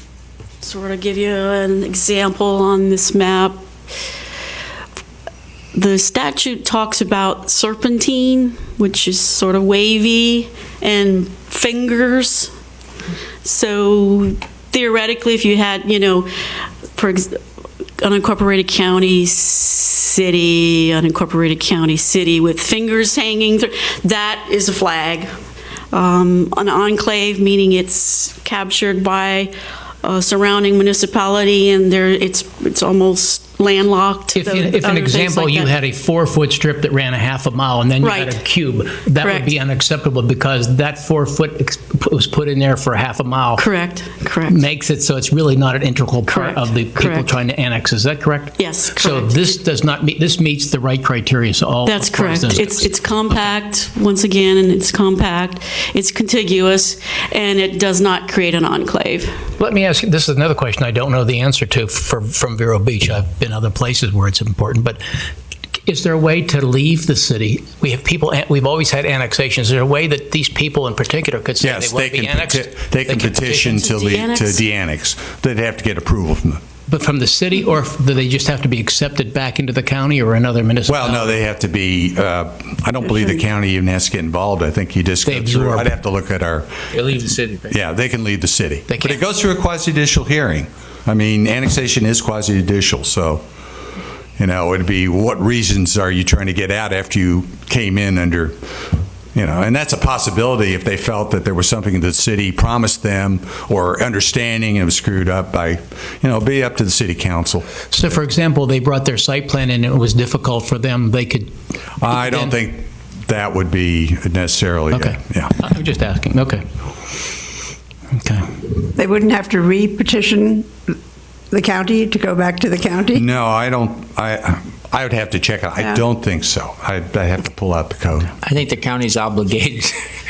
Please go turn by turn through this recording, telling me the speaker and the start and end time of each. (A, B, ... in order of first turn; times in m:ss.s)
0:00.6-0:03.6 A
0:05.7-0:12.5 A
0:13.4-0:16.3 A
0:17.0-0:17.4 A
0:18.0-0:25.3 A
0:25.9-0:29.5 A
0:30.0-0:35.7 A
0:34.3-0:43.6 B
0:38.0-0:38.4 A
0:39.2-0:39.5 A
0:43.6-0:44.6 A
0:44.5-0:52.9 B
0:46.3-0:47.3 A
0:48.6-0:49.5 A
0:51.8-0:59.3 A
0:59.6-1:05.0 B
1:05.9-1:13.8 B
1:11.6-1:16.6 C
1:13.7-1:14.6 A
1:16.9-1:21.4 B
1:20.9-1:26.7 C
1:25.2-1:25.9 B
1:26.9-1:27.8 D
1:27.7-1:33.4 C
1:28.9-1:29.2 B
1:34.4-1:38.6 C
1:39.3-1:47.7 C
1:47.9-1:51.5 B
1:52.0-1:55.6 C
1:52.0-1:52.6 B
1:54.9-1:56.6 B
1:58.1-1:58.5 B
1:59.0-2:00.7 E
2:01.5-2:03.2 E
2:03.1-2:08.3 C
2:08.4-2:10.0 D